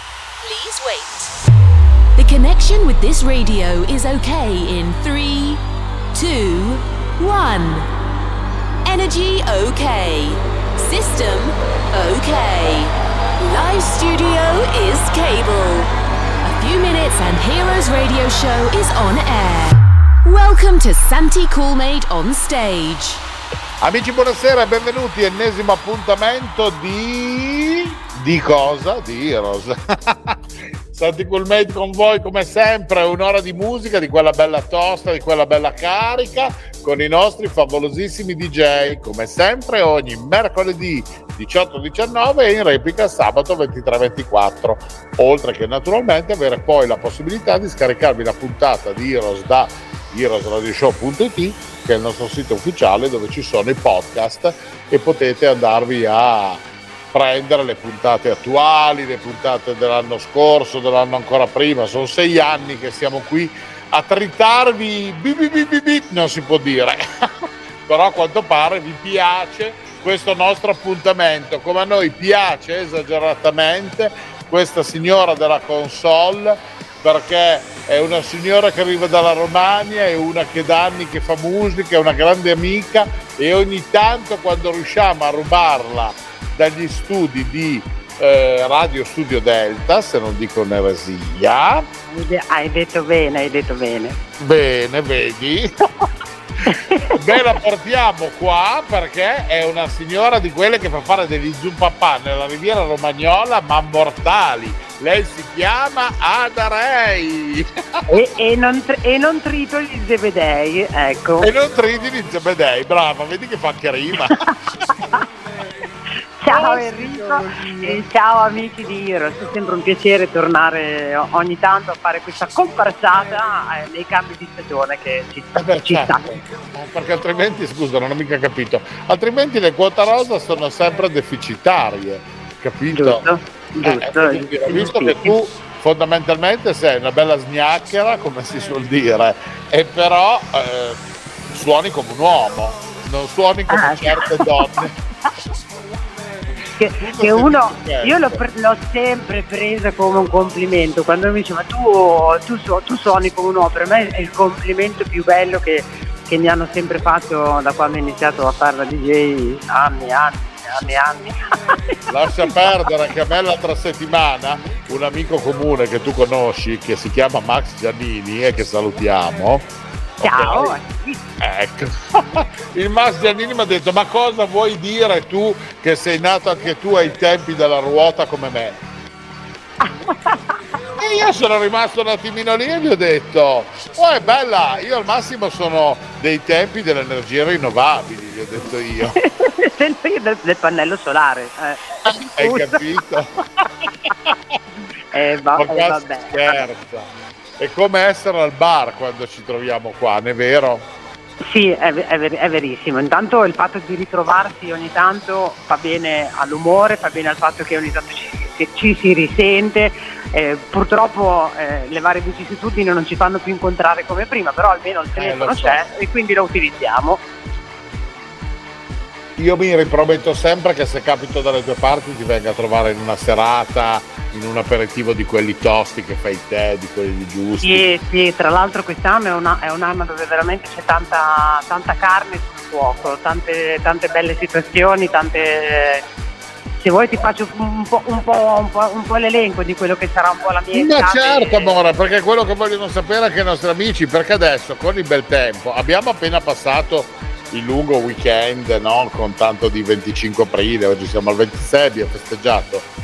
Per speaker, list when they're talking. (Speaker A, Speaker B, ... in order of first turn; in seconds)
Speaker A: 0.4-1.3, 2.1-7.9, 8.8-15.9, 16.4-23.2
Speaker B: 23.8-30.4, 30.9-91.9, 94.4-95.7, 97.1-108.0, 111.4-114.4, 116.5-118.0, 125.5-133.3, 133.8-144.9, 147.0-148.4, 162.1-169.7, 170.2-170.8, 171.4-178.8, 181.0-189.2, 192.1-193.3, 193.8-194.6, 195.5-197.1, 197.6-200.9, 215.2-215.8, 219.4-227.9, 240.7-252.9
Speaker C: 92.1-94.2, 96.6-97.2, 108.1-111.5, 116.4-126.5, 132.9-135.3, 143.7-144.5, 146.8-162.6, 170.2-171.2, 179.8-180.5, 189.1-192.8, 195.1-196.6, 201.4-217.2, 227.6-236.0, 236.8-241.8